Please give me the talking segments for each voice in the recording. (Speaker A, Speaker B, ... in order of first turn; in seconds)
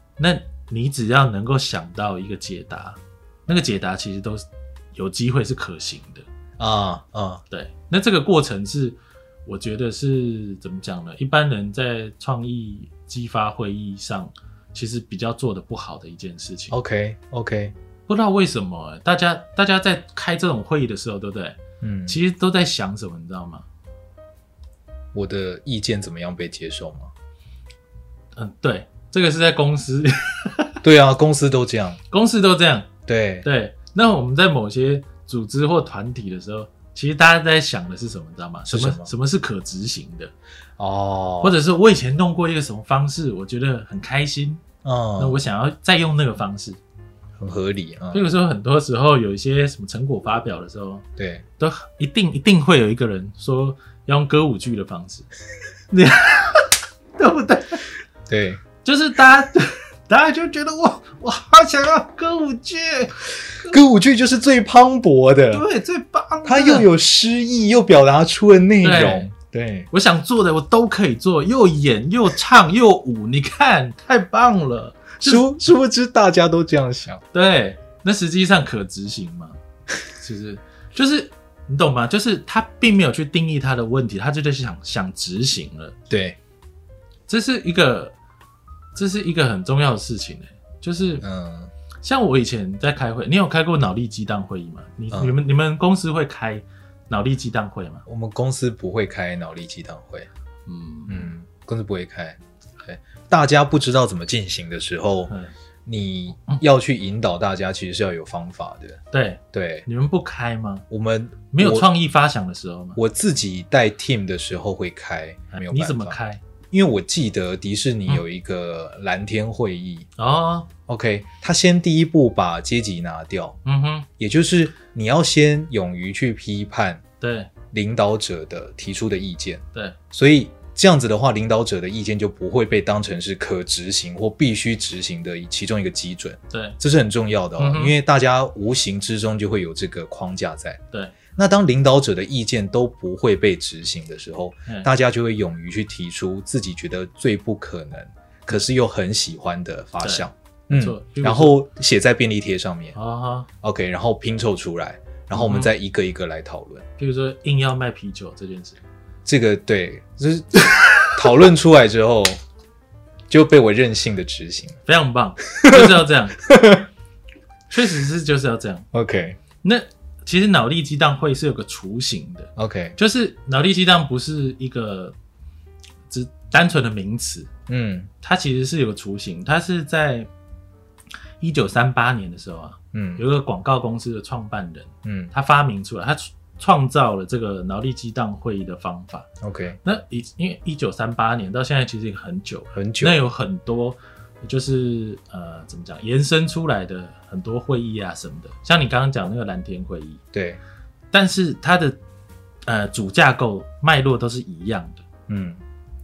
Speaker A: 0.2-6.2, 7.5-16.7, 18.1-23.6, 28.3-30.8, 32.1-32.9, 33.4-40.3, 41.4-44.6, 45.2-46.8, 48.1-51.0, 51.6-55.3, 55.9-57.8, 58.8-63.8, 65.5-66.9, 68.8-69.3, 69.9-75.4, 77.3-79.6, 80.1-86.0, 87.3-88.1, 88.9-91.2, 92.0-98.0, 100.7-101.3, 109.1-110.8, 111.5-113.0, 115.5-116.4, 120.2-120.7, 123.6-124.1, 127.2-127.5, 136.5-136.8, 137.6-137.9, 150.0-151.6, 152.9-153.5, 155.3-155.7, 157.0-158.8, 164.8-166.5, 167.7-168.9, 169.6-175.1, 176.1-177.5, 178.2-180.3, 181.4-189.3, 189.8-200.2, 201.1-202.0, 202.7-205.0
Speaker B: 6.6-7.4, 16.7-17.7, 21.8-22.2, 25.1-27.1, 30.8-32.0, 33.1-33.5, 38.7-39.1, 40.8-41.5, 44.8-45.4, 47.4-48.3, 51.2-51.4, 58.3-58.6, 63.6-65.6, 66.4-69.9, 75.2-77.2, 86.1-86.4, 91.2-91.7, 98.1-100.3, 101.1-105.3, 105.8-109.0, 109.5-109.9, 110.9-111.9, 113.0-116.2, 116.7-120.1, 120.9-123.6, 124.2-127.0, 127.7-140.8, 141.3-152.9, 153.6-156.8, 159.2-162.4, 163.3-164.8, 165.6-165.9, 166.4-166.8, 168.9-169.4, 172.6-172.9, 177.7-178.1, 182.9-183.2, 185.0-185.3, 189.4-189.8, 192.7-193.2, 200.3-200.6, 205.3-205.6